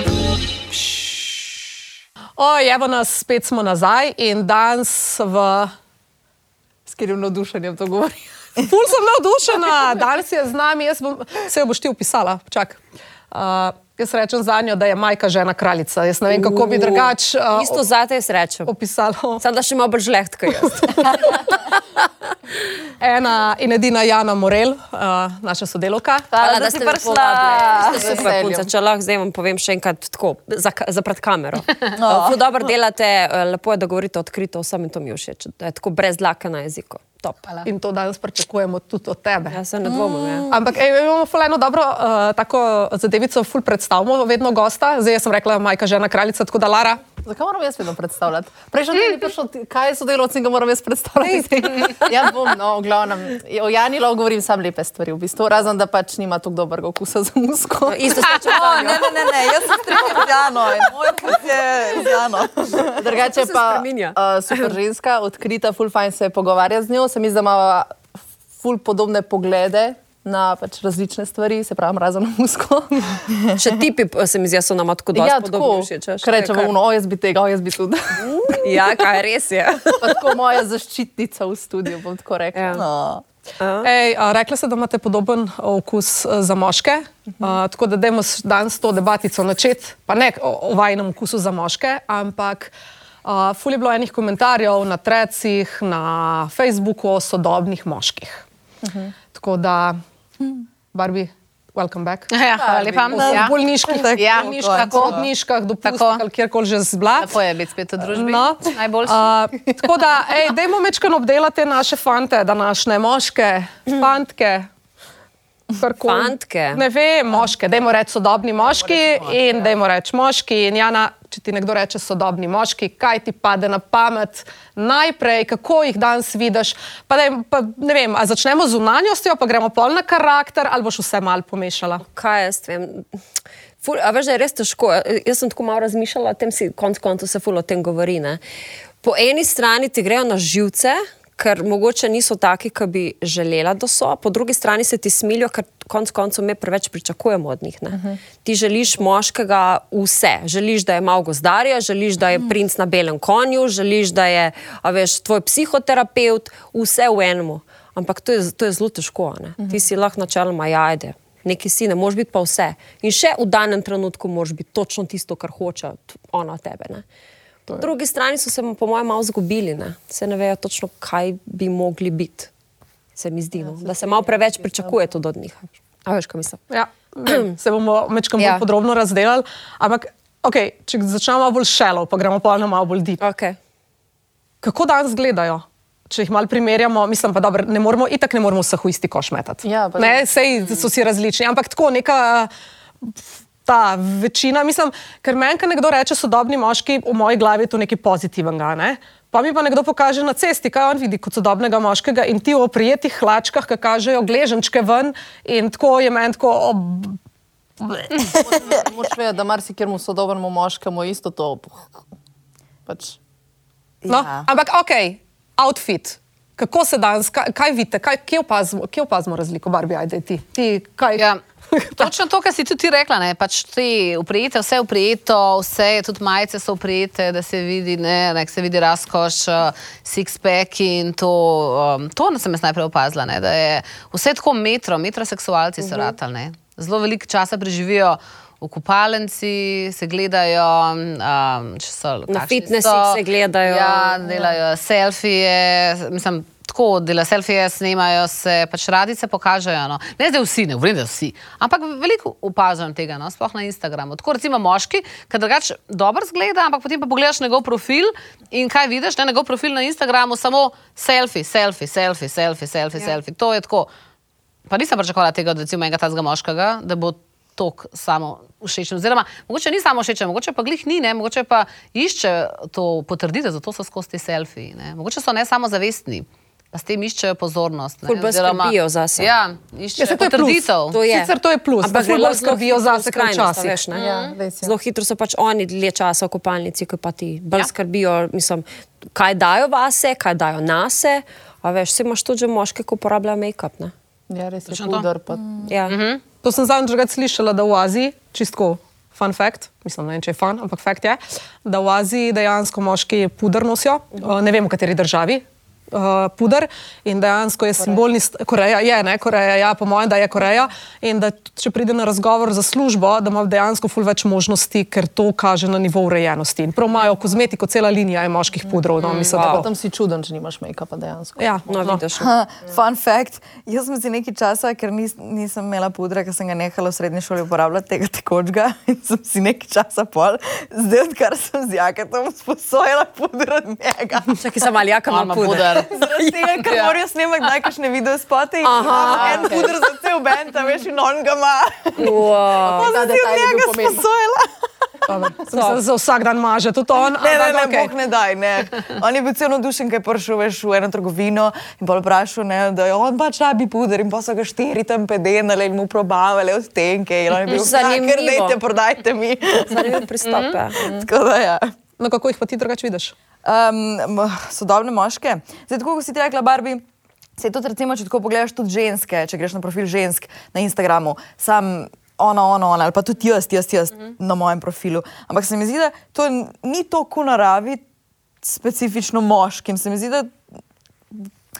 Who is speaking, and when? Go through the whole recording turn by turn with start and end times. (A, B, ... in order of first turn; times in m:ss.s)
0:02.4-0:05.7 A
0:06.8-0:08.2 B
0:08.7-0:12.8 A
0:13.3-0:17.8 A
0:16.3-0:18.7 C
0:18.6-0:19.4 A
0:19.4-0:22.0 C
0:20.5-0:20.8 A
0:23.0-0:26.3 A
0:26.3-0:28.3 D
0:26.3-0:37.5 C
0:27.7-0:28.7 B
0:31.9-0:32.4 D
0:37.6-0:39.6 A
0:39.5-0:40.5 C
0:39.8-0:40.5 D
0:40.5-0:47.0 A
0:47.2-0:58.3 B
0:57.9-1:00.2 C
0:58.4-1:03.0 D
1:03.0-1:08.0 B
1:03.1-1:04.7 C
1:08.6-1:13.2 B
1:13.5-1:16.7 C
1:15.1-1:18.9 B
1:18.2-1:20.4 C
1:20.0-1:22.8 B
1:22.5-1:22.8 C
1:22.7-1:23.2 D
1:23.6-1:23.9 C
1:23.8-1:32.7 A
1:33.2-1:38.4 A
1:38.8-1:39.1 B
1:39.3-1:40.0 A
1:40.9-1:42.3 A
1:42.3-1:43.6 E
1:42.5-1:43.3 B
1:43.1-1:47.4 A
1:43.1-1:45.2 D
1:44.1-1:45.3 E
1:45.8-1:46.2 E
1:47.2-1:49.3 E
1:48.0-1:54.7 A
1:55.8-2:12.0 A
1:56.0-1:56.8 C
1:58.9-1:59.5 D
2:12.0-2:13.1 C
2:13.8-2:18.4 C
2:19.0-2:47.0 C
2:27.9-2:28.2 B
2:47.8-2:52.5 C
2:53.2-2:56.6 C
2:53.6-2:55.1 B
2:56.7-3:03.2 A
2:57.2-2:57.5 C
2:58.4-2:58.6 C
3:03.2-3:03.6 C
3:04.6-3:12.5 A
3:09.6-3:10.3 B
3:13.0-3:27.2 A
3:27.8-3:28.1 A
3:28.2-3:32.0 B
3:32.9-3:33.2 B
3:34.0-3:34.5 D
3:34.1-3:42.1 A
3:41.1-3:41.4 E
3:42.0-4:23.9 E
3:55.9-3:56.1 C
4:02.3-4:04.5 C
4:24.7-4:41.0 E
4:38.1-4:39.3 C
4:40.0-4:43.8 A
4:40.9-4:44.0 C
4:43.9-4:44.4 E
4:43.9-4:44.7 B
4:44.6-4:53.9 C
4:54.3-4:55.7 B
4:54.7-4:55.0 E
4:55.4-4:55.7 D
4:55.7-4:56.0 C
4:55.9-4:56.2 E
4:56.4-5:19.7 A
5:19.0-5:19.4 E
5:19.3-5:21.6 B
5:19.4-5:19.6 C
5:21.4-5:22.0 A
5:21.7-5:22.3 C
5:22.2-5:34.4 D
5:34.3-5:36.5 C
5:35.1-5:35.9 E
5:35.8-5:44.5 D
5:36.6-5:36.9 E
5:38.6-5:39.7 C
5:38.9-5:39.6 B
5:42.0-5:42.9 C
5:42.6-5:44.0 B
5:45.1-5:47.9 A
5:45.5-5:45.8 C
5:47.2-6:00.0 D
5:57.5-5:58.6 C
5:59.6-6:00.8 C
6:00.2-6:00.6 E
6:00.8-6:01.7 D
6:02.0-6:03.1 A
6:03.4-6:06.8 D
6:07.4-6:17.8 D
6:18.4-6:20.4 D